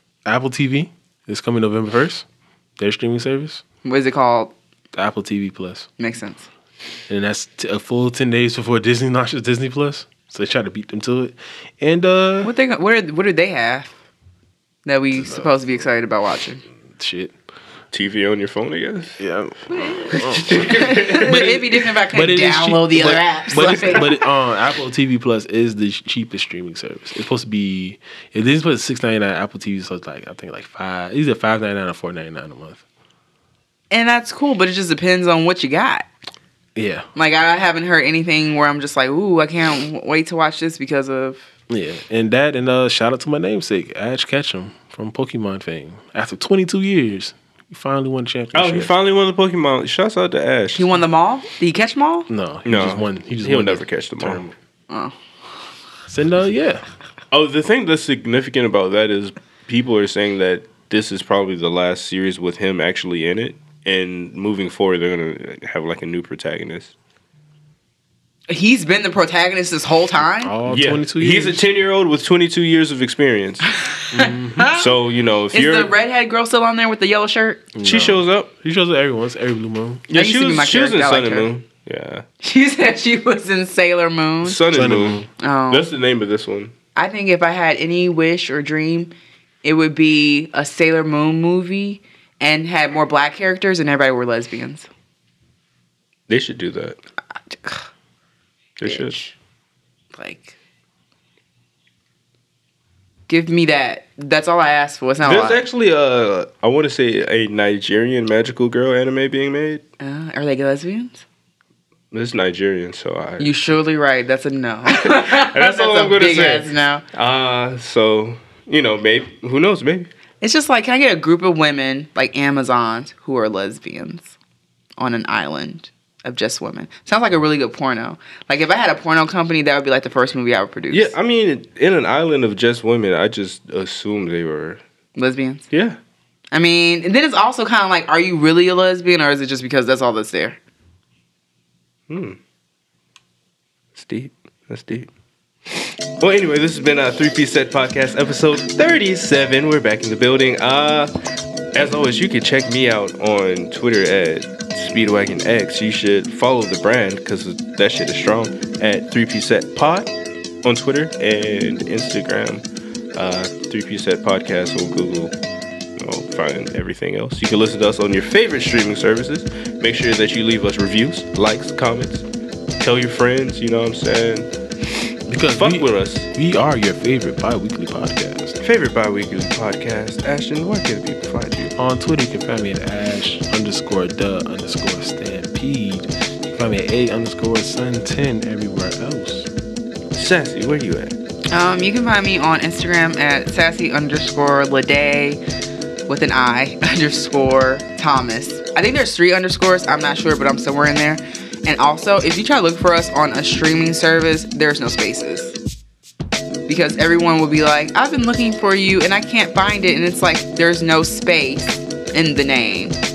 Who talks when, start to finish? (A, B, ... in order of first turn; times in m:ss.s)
0:00.3-0:02.3 A
0:02.8-0:03.6 A
0:03.8-0:04.6 B
0:04.9-0:05.9 A
0:06.0-0:06.5 B
0:07.1-0:12.5 A
0:12.4-0:13.9 B
0:14.9-0:16.6 B
0:15.2-0:15.5 A
0:17.0-0:17.3 A
0:17.9-0:19.2 C
0:19.2-0:32.8 A
0:19.7-0:24.2 B
0:20.1-0:21.4 C
0:33.9-0:36.1 B
0:36.8-0:37.1 A
0:37.2-0:41.5 B
0:41.7-0:48.9 A
0:48.5-0:50.9 C
0:50.8-0:52.3 B
0:52.3-0:54.6 A
0:52.6-0:54.4 C
0:56.1-0:56.8 A
0:57.3-1:06.9 C
1:08.5-1:10.5 B
1:10.4-1:11.6 A
1:10.7-1:13.7 C
1:13.8-1:14.8 B
1:14.1-1:14.7 A
1:14.7-1:15.9 C
1:15.5-1:17.7 B
1:17.8-1:20.1 A
1:17.8-1:18.5 C
1:20.1-1:22.2 C
1:20.1-1:21.5 B
1:22.4-1:24.6 B
1:24.4-1:26.7 C
1:24.7-1:25.3 A
1:25.4-1:25.9 B
1:27.0-1:29.1 B
1:29.6-1:34.9 B
1:36.3-1:37.0 C
1:37.5-1:37.9 B
1:38.8-1:39.2 C
1:38.8-1:39.4 B
1:40.1-1:40.6 B
1:43.3-1:45.6 B
1:45.2-1:49.8 C
1:50.0-1:51.2 B
1:52.1-1:53.5 C
1:53.4-1:57.0 B
1:54.9-2:00.1 C
2:00.4-2:04.4 B
2:05.0-2:11.1 B
2:10.9-2:14.8 C
2:15.2-2:15.7 B
2:15.7-2:16.0 C
2:16.5-2:20.6 B
2:22.1-2:22.4 C
2:24.0-2:25.1 C
2:25.8-2:31.1 C
2:31.7-2:40.1 C
2:40.6-2:42.6 C
2:43.2-2:45.3 C
2:46.0-2:52.3 C
2:52.8-2:54.5 C
2:55.3-2:58.6 A
2:55.6-2:56.3 C
2:58.6-3:01.7 C
3:01.8-3:09.5 A
3:10.1-3:11.2 C
3:11.5-3:15.4 B
3:16.1-3:25.6 B
3:26.7-3:33.0 B